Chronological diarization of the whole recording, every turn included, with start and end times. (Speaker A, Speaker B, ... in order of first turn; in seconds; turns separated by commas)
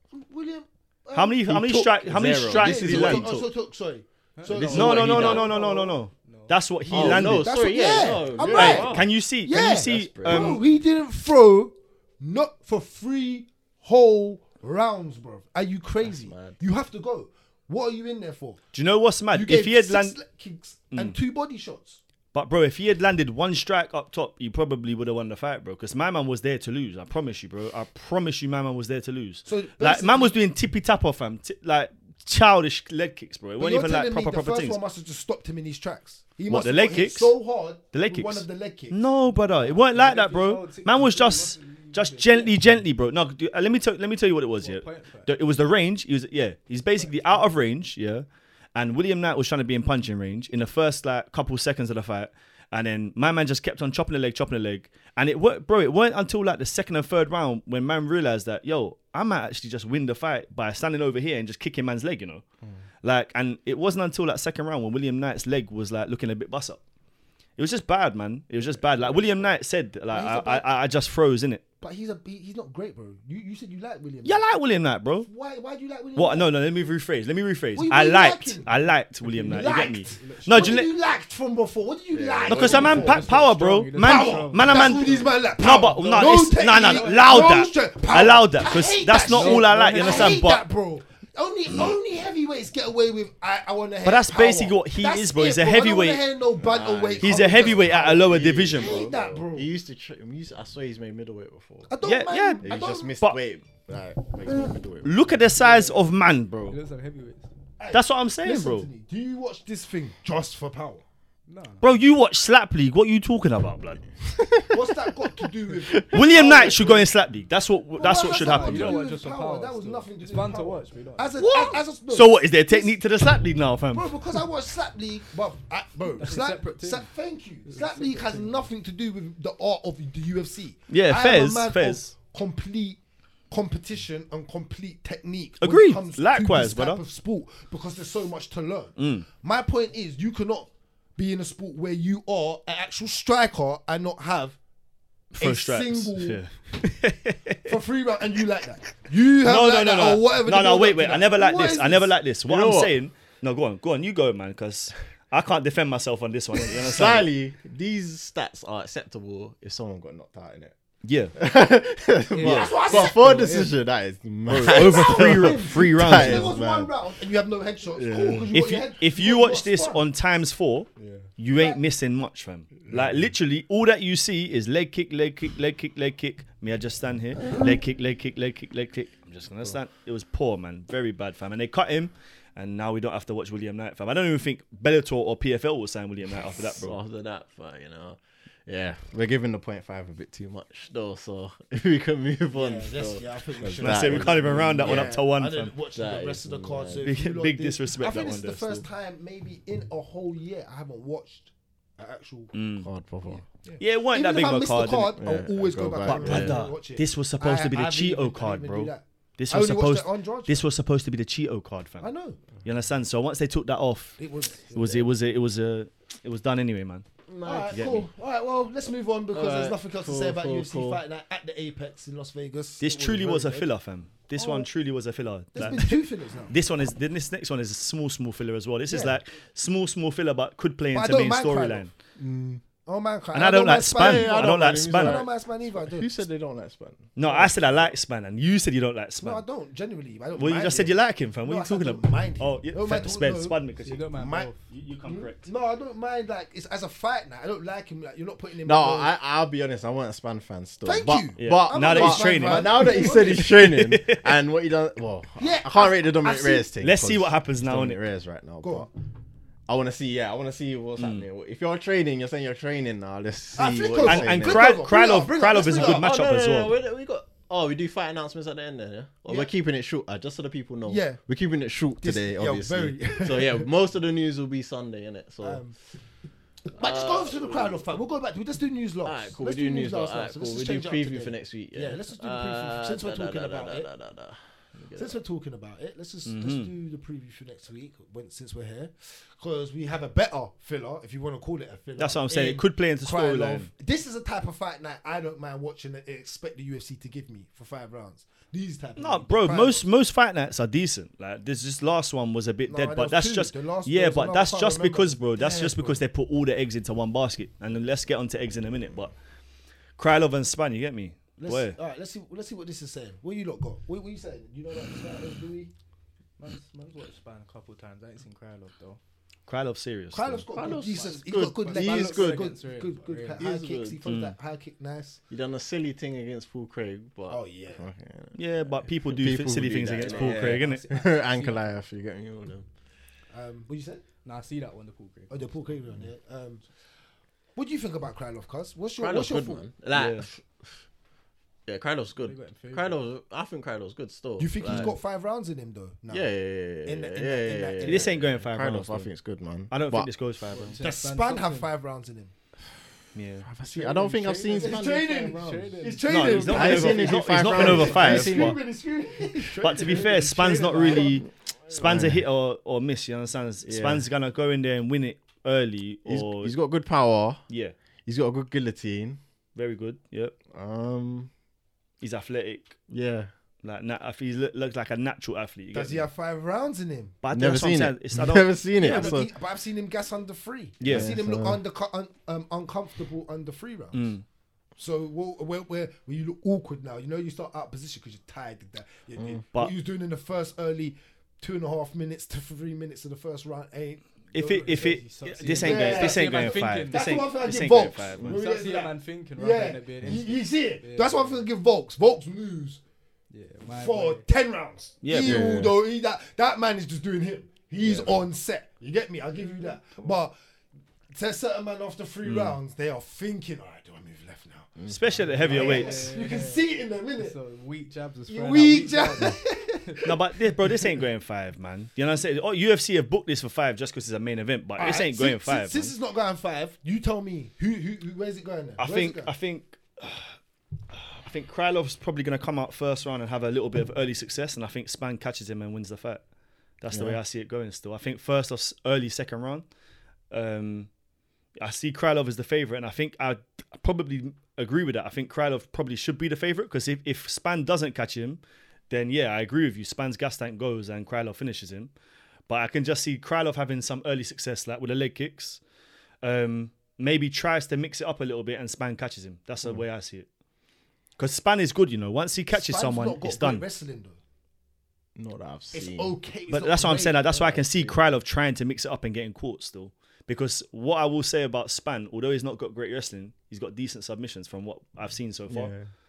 Speaker A: 0.1-6.0, Speaker B: 1.1-3.3, Speaker C: 2.0-3.5, Speaker D: 4.4-6.6, Speaker C: 4.5-5.6, Speaker B: 4.6-7.5, Speaker C: 6.9-9.1, Speaker A: 6.9-18.6, Speaker B: 8.4-10.6, Speaker C: 9.8-10.6, Speaker C: 16.0-16.6, Speaker B: 18.7-20.1, Speaker A: 19.3-22.0, Speaker B: 20.9-21.2, Speaker B: 22.3-34.8, Speaker A: 29.4-30.4, Speaker A: 33.6-39.0, Speaker B: 36.5-37.3, Speaker B: 37.9-62.4, Speaker D: 39.5-42.6, Speaker D: 44.6-45.3, Speaker D: 47.0-47.5, Speaker B: 63.0-66.8, Speaker B: 67.6-71.6, Speaker A: 70.1-70.7, Speaker A: 71.8-74.4, Speaker B: 74.2-75.3, Speaker A: 75.2-76.5, Speaker B: 76.2-80.9, Speaker A: 77.7-78.7, Speaker D: 78.7-80.9, Speaker A: 79.5-83.2, Speaker C: 82.1-83.2, Speaker B: 82.5-90.6, Speaker D: 82.7-87.6, Speaker A: 84.0-99.7, Speaker D: 89.2-90.4, Speaker B: 94.0-96.2, Speaker C: 96.6-101.9, Speaker B: 97.2-99.0, Speaker A: 101.9-103.1, Speaker B: 102.0-103.4, Speaker C: 102.6-105.4, Speaker B: 105.0-106.7, Speaker D: 105.6-106.1, Speaker D: 106.7-107.5, Speaker A: 107.8-111.0, Speaker B: 107.9-108.9, Speaker D: 111.5-111.9, Speaker B: 111.8-114.0, Speaker C: 114.3-114.8, Speaker A: 114.7-117.1, Speaker B: 116.1-119.0, Speaker A: 118.0-123.0, Speaker D: 118.2-121.3, Speaker C: 121.4-121.8, Speaker B: 122.1-124.1, Speaker A: 123.9-144.6, Speaker D: 126.2-127.1, Speaker D: 127.7-128.7, Speaker B: 130.9-132.1, Speaker B: 135.6-137.0, Speaker B: 139.0-139.2, Speaker B: 145.3-147.7, Speaker A: 145.4-146.4, Speaker A: 147.7-152.1, Speaker B: 149.4-157.3, Speaker C: 152.5-152.9, Speaker C: 156.7-160.7, Speaker B: 161.0-161.3, Speaker C: 161.3-166.9, Speaker D: 162.3-163.7, Speaker A: 162.4-163.4, Speaker B: 164.5-166.6, Speaker A: 164.6-170.0, Speaker C: 167.9-168.5, Speaker B: 168.5-186.9, Speaker C: 171.0-171.3, Speaker A: 171.5-171.8, Speaker C: 172.9-173.2, Speaker C: 186.7-195.2, Speaker A: 192.5-202.5, Speaker B: 193.8-195.7, Speaker C: 195.9-197.1, Speaker B: 197.0-198.8, Speaker B: 202.5-202.9, Speaker C: 202.8-203.4, Speaker A: 203.3-210.6, Speaker B: 203.8-205.2, Speaker C: 205.2-206.7, Speaker B: 206.0-212.1, Speaker A: 212.0-212.4, Speaker B: 212.6-214.2, Speaker A: 214.2-215.0, Speaker B: 214.7-217.1, Speaker C: 217.3-218.0, Speaker A: 217.4-223.7, Speaker B: 217.7-218.0, Speaker C: 219.3-221.0, Speaker B: 222.8-231.9, Speaker A: 224.4-224.7, Speaker A: 225.5-226.5, Speaker A: 228.9-229.2, Speaker A: 230.9-236.1, Speaker B: 233.3-235.2, Speaker C: 233.9-237.1, Speaker B: 237.2-239.4, Speaker A: 239.2-243.6, Speaker B: 240.3-244.1, Speaker D: 243.8-244.6, Speaker A: 244.1-244.5, Speaker B: 244.7-245.5, Speaker A: 245.0-249.1, Speaker C: 248.6-258.9, Speaker A: 250.8-253.5, Speaker B: 251.4-254.4, Speaker A: 255.4-256.7, Speaker B: 256.8-258.0, Speaker A: 258.6-258.9, Speaker C: 259.7-264.8, Speaker B: 261.0-261.2, Speaker A: 263.6-266.1, Speaker B: 264.0-266.8, Speaker C: 265.6-275.6, Speaker A: 270.9-271.2, Speaker A: 272.0-273.7, Speaker A: 275.4-275.7, Speaker A: 276.7-283.9, Speaker C: 276.8-277.9, Speaker C: 279.0-285.2, Speaker A: 284.9-299.9, Speaker B: 286.2-286.7, Speaker B: 292.0-293.7, Speaker B: 299.0-309.1, Speaker A: 302.7-306.0, Speaker B: 310.0-311.8, Speaker A: 311.4-315.7, Speaker D: 316.4-319.0, Speaker B: 319.5-320.4, Speaker A: 320.1-325.2, Speaker C: 320.5-322.5, Speaker D: 321.6-323.4, Speaker C: 323.4-324.1, Speaker B: 324.0-324.3, Speaker C: 325.3-332.7, Speaker A: 327.3-327.9, Speaker B: 328.3-330.9, Speaker D: 330.1-331.8, Speaker A: 333.3-334.0, Speaker D: 334.2-335.4, Speaker A: 335.3-336.6, Speaker A: 337.6-339.6, Speaker C: 339.0-340.7, Speaker B: 339.9-340.3, Speaker C: 341.6-344.9, Speaker D: 342.2-343.1, Speaker A: 344.4-346.3, Speaker C: 346.1-350.1, Speaker A: 346.8-348.1, Speaker B: 347.8-349.1, Speaker B: 349.7-350.8, Speaker D: 350.5-351.7, Speaker A: 350.8-352.3, Speaker B: 353.1-353.5, Speaker C: 353.4-355.7, Speaker D: 353.6-357.1, Speaker A: 354.5-361.2, Speaker B: 356.1-358.6, Speaker C: 356.3-358.6, Speaker D: 359.6-361.1, Speaker B: 359.6-366.5, Speaker C: 361.7-362.2, Speaker C: 363.6-364.1, Speaker C: 366.1-367.4, Speaker B: 367.5-367.7, Speaker C: 368.1-369.2, Speaker B: 369.5-370.3, Speaker C: 370.5-371.3, Speaker B: 372.0-372.8, Speaker C: 372.9-373.3, Speaker B: 373.6-376.1, Speaker A: 375.7-377.1, Speaker B: 377.2-379.3, Speaker C: 377.3-379.3, Speaker A: 378.8-384.1, Speaker B: 380.8-381.2, Speaker C: 380.8-381.6, Speaker B: 383.9-384.2, Speaker A: 384.8-394.0, Speaker D: 394.3-397.3, Speaker B: 394.3-398.4, Speaker A: 395.6-402.8, Speaker D: 398.3-401.4, Speaker D: 403.3-404.2, Speaker A: 403.7-410.3, Speaker B: 405.0-405.5, Speaker C: 405.2-405.8, Speaker C: 407.8-408.2, Speaker D: 409.4-410.1, Speaker A: 411.1-414.7, Speaker B: 412.2-412.6, Speaker C: 414.8-415.4, Speaker B: 414.9-416.1, Speaker D: 415.4-416.7, Speaker A: 415.4-417.4, Speaker D: 417.2-420.1, Speaker A: 418.3-420.7, Speaker B: 420.0-425.9, Speaker A: 424.8-429.3, Speaker B: 428.8-430.3, Speaker B: 430.9-436.2, Speaker B: 436.8-439.6, Speaker C: 436.9-437.2, Speaker B: 440.3-440.9, Speaker B: 441.6-451.9, Speaker B: 452.5-455.6, Speaker B: 456.2-460.3, Speaker B: 461.2-463.6, Speaker A: 462.5-464.2, Speaker C: 465.1-466.1, Speaker A: 465.7-467.6, Speaker B: 466.5-475.7, Speaker C: 467.5-468.0, Speaker C: 475.5-475.9